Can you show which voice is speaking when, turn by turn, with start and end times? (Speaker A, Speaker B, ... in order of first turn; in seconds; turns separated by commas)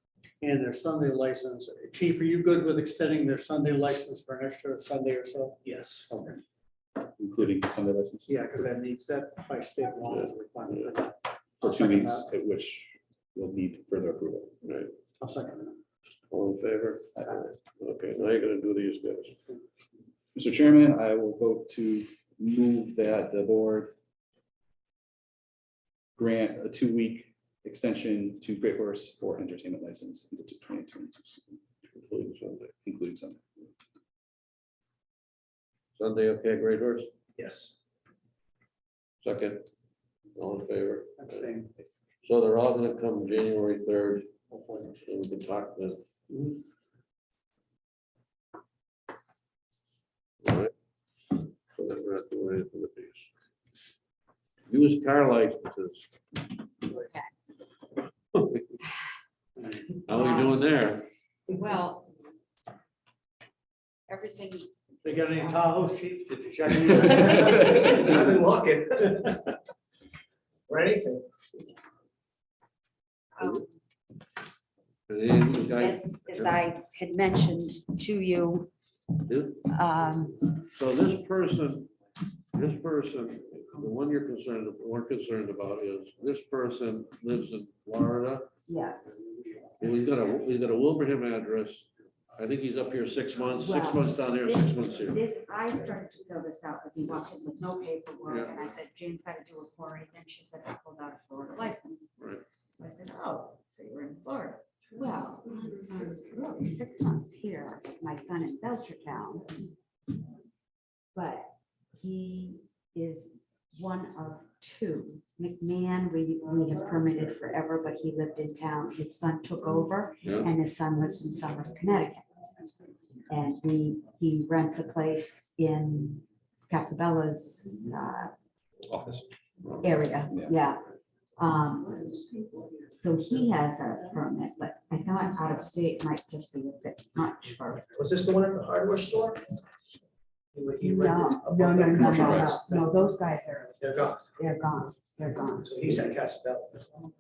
Speaker A: 0.4-6.4, Speaker B: 5.7-6.1, Speaker C: 7.2-8.3, Speaker A: 8.3-12.3, Speaker C: 11.6-14.6, Speaker D: 14.6-14.9, Speaker A: 15.2-15.8, Speaker D: 16.3-19.4, Speaker C: 20.4-23.9, Speaker C: 26.2-31.6, Speaker D: 31.9-32.7, Speaker C: 32.8-33.4, Speaker D: 36.0-37.1, Speaker B: 37.4-37.8, Speaker D: 39.2-39.7, Speaker D: 40.4-41.5, Speaker A: 41.2-41.7, Speaker D: 42.2-44.3, Speaker A: 44.5-45.0, Speaker D: 45.0-46.6, Speaker D: 50.4-50.7, Speaker D: 51.3-53.3, Speaker D: 54.7-56.1, Speaker E: 56.9-57.3, Speaker A: 59.6-59.8, Speaker D: 60.1-61.1, Speaker E: 60.1-60.6, Speaker E: 61.5-62.1, Speaker E: 64.1-65.6, Speaker A: 65.0-67.6, Speaker B: 67.2-69.6, Speaker B: 70.7-71.2, Speaker E: 73.4-73.7, Speaker D: 75.1-76.6, Speaker E: 75.7-78.7, Speaker D: 79.2-79.7, Speaker E: 79.7-80.5, Speaker D: 80.5-81.9, Speaker D: 82.5-88.5, Speaker E: 88.7-89.2, Speaker D: 89.8-95.2, Speaker E: 93.5-102.2, Speaker D: 98.3-98.5, Speaker E: 102.7-109.7, Speaker E: 111.1-122.3, Speaker D: 120.2-120.5, Speaker E: 123.3-128.3, Speaker C: 128.9-129.3, Speaker E: 129.8-130.8, Speaker E: 131.4-132.3, Speaker E: 133.0-137.9, Speaker B: 137.9-139.4, Speaker B: 140.5-142.9, Speaker E: 140.8-145.7, Speaker C: 142.0-142.6, Speaker B: 143.8-144.3, Speaker B: 145.5-147.1